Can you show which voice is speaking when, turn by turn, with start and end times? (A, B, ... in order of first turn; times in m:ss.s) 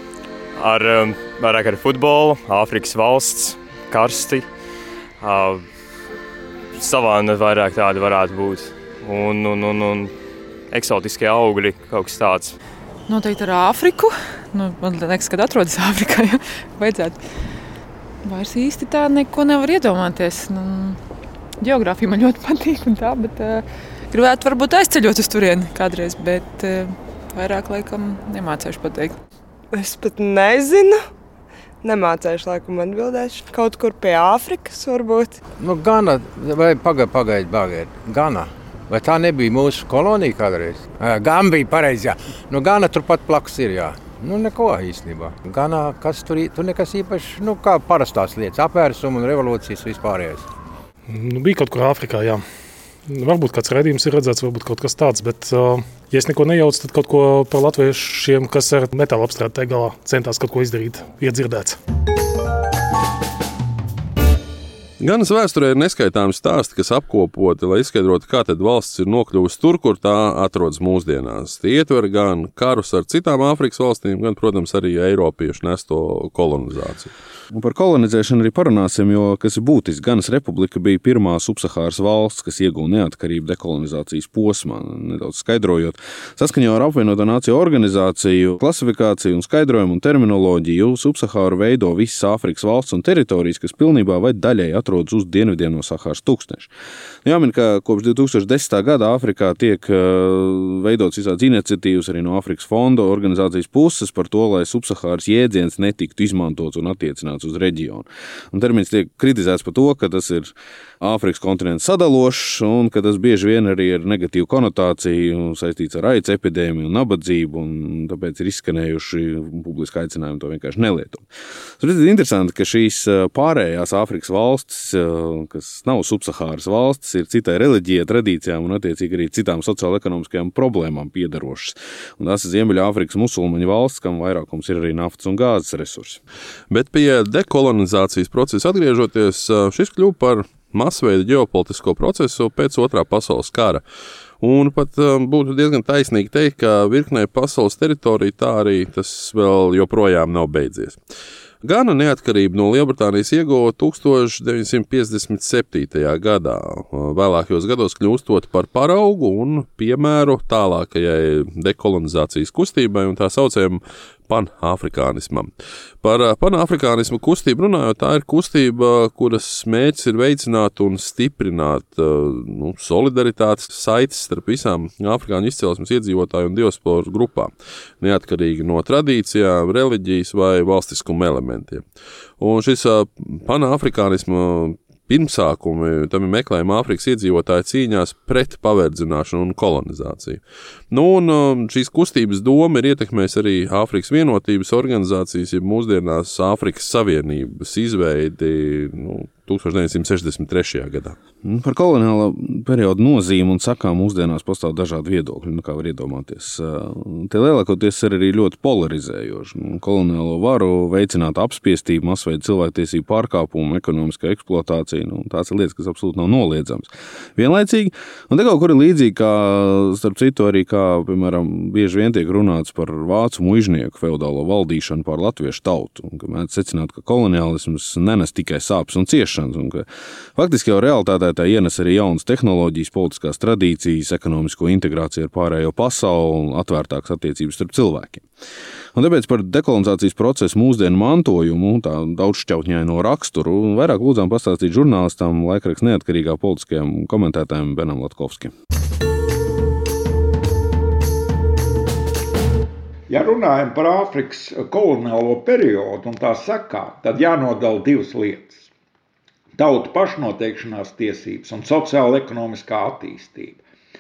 0:00.6-0:04.5 A
0:05.2-0:05.6 A
0:06.8-0:10.1 A
0:10.7-0:12.6 A
0:13.1-0:17.2 B
0:18.2-0:21.0 B
0:21.6-0:29.2 B
0:29.8-0:31.0 C
0:31.8-0:35.4 C
0:35.6-0:50.4 D
0:51.1-0:52.4 E
0:53.1-1:01.8 E
1:05.0-1:17.1 F
1:17.5-1:36.7 G
1:37.2-2:01.2 G
2:01.8-2:16.2 G
2:16.7-2:23.8 F
2:24.4-2:31.0 F
2:31.6-2:45.5 F
2:46.0-2:57.5 F
2:58.0-3:01.8 F
3:02.4-3:21.2 F
3:21.4-3:49.8 G
3:50.4-3:58.2 G
3:58.9-4:08.5 G
4:13.1-4:18.7 H
4:19.6-4:23.6 H